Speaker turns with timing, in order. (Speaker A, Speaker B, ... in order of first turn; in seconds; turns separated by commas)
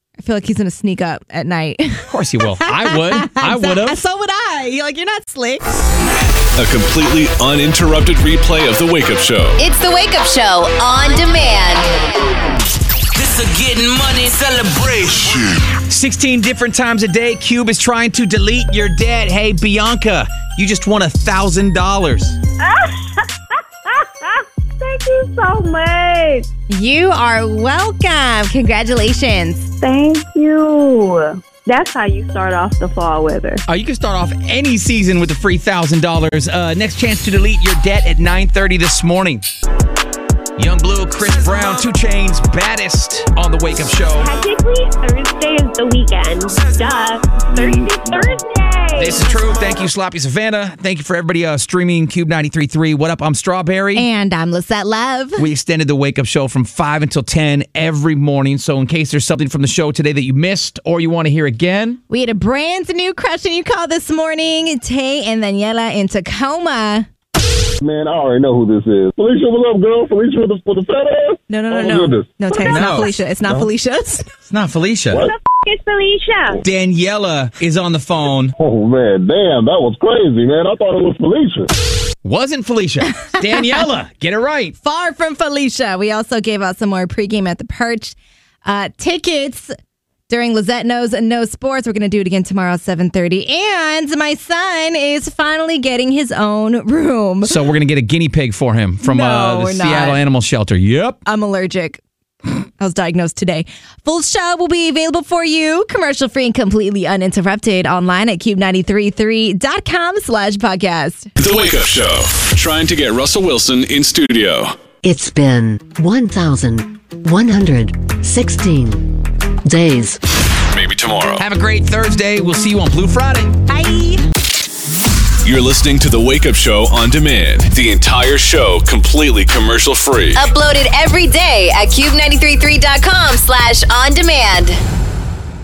Speaker A: 0.2-5.6, Speaker B: 2.1-4.0, Speaker C: 6.5-9.6, Speaker D: 9.6-12.1, Speaker E: 13.1-15.4, Speaker B: 15.9-22.4, Speaker F: 22.6-23.2, Speaker F: 23.9-26.5, Speaker A: 26.7-29.7, Speaker F: 29.8-33.6, Speaker B: 33.7-39.4, Speaker B: 40.6-44.3, Speaker G: 44.2-49.5, Speaker B: 48.9-54.0, Speaker A: 53.9-55.4, Speaker B: 55.4-62.0, Speaker A: 62.1-67.1, Speaker H: 67.8-73.7, Speaker A: 71.5-74.3, Speaker B: 72.6-73.1, Speaker B: 74.5-75.3, Speaker G: 75.2-76.6, Speaker B: 76.6-78.5, Speaker H: 78.6-81.7, Speaker B: 82.2-84.8, Speaker A: 84.8-89.7, Speaker A: 90.3-97.6, Speaker B: 97.4-101.2, Speaker A: 99.0-100.2, Speaker A: 101.2-102.0, Speaker A: 102.8-111.3, Speaker C: 111.4-114.8, Speaker I: 115.0-120.2, Speaker C: 120.7-121.4, Speaker B: 121.4-123.6, Speaker A: 123.7-124.2, Speaker C: 125.4-130.5, Speaker D: 130.3-134.8